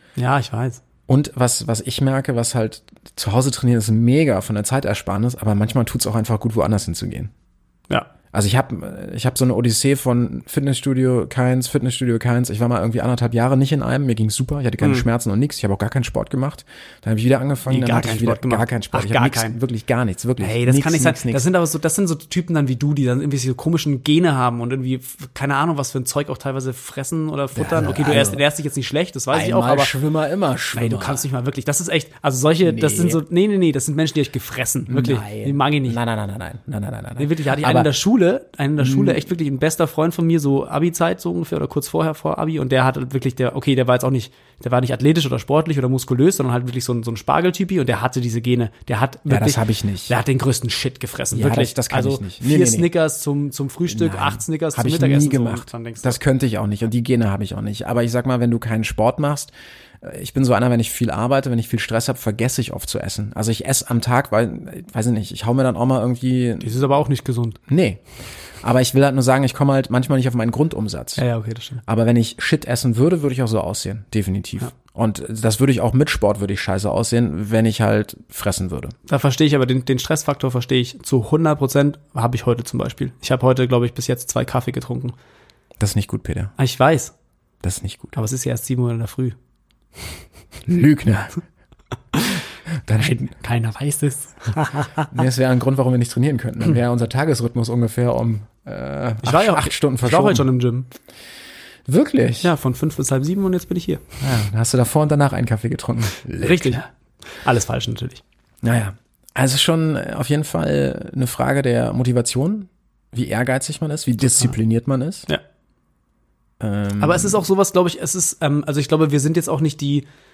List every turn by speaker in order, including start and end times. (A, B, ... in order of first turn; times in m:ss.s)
0:00.2-0:00.8 A
0:01.1-0:07.3 B
0:08.3-0:21.4 B
0:17.7-0:19.6 A
0:20.4-0:29.9 A
0:27.6-0:28.4 B
0:29.3-0:31.3 B
0:30.7-0:36.0 A
0:32.6-0:33.2 B
0:34.9-0:37.9 B
0:37.2-0:56.2 A
0:38.8-0:39.2 B
0:49.3-0:50.2 B
0:51.3-0:52.9 B
0:53.9-1:06.7 B
1:06.6-1:07.6 A
1:07.7-1:08.0 B
1:08.6-1:11.2 B
1:11.2-1:11.8 A
1:11.8-1:19.0 B
1:19.1-1:25.2 A
1:25.8-1:26.5 B
1:26.6-1:27.1 A
1:27.6-1:28.2 B
1:28.1-1:29.4 A
1:30.7-1:31.4 B
1:32.1-1:32.4 A
1:32.8-1:33.3 B
1:33.0-1:35.1 A
1:35.1-1:40.5 B
1:39.2-1:40.9 A
1:41.9-1:42.5 B
1:42.4-1:44.0 A
1:44.2-1:46.8 B
1:46.4-1:48.2 A
1:48.6-1:55.3 B
1:56.6-1:57.4 B
1:57.0-2:00.0 A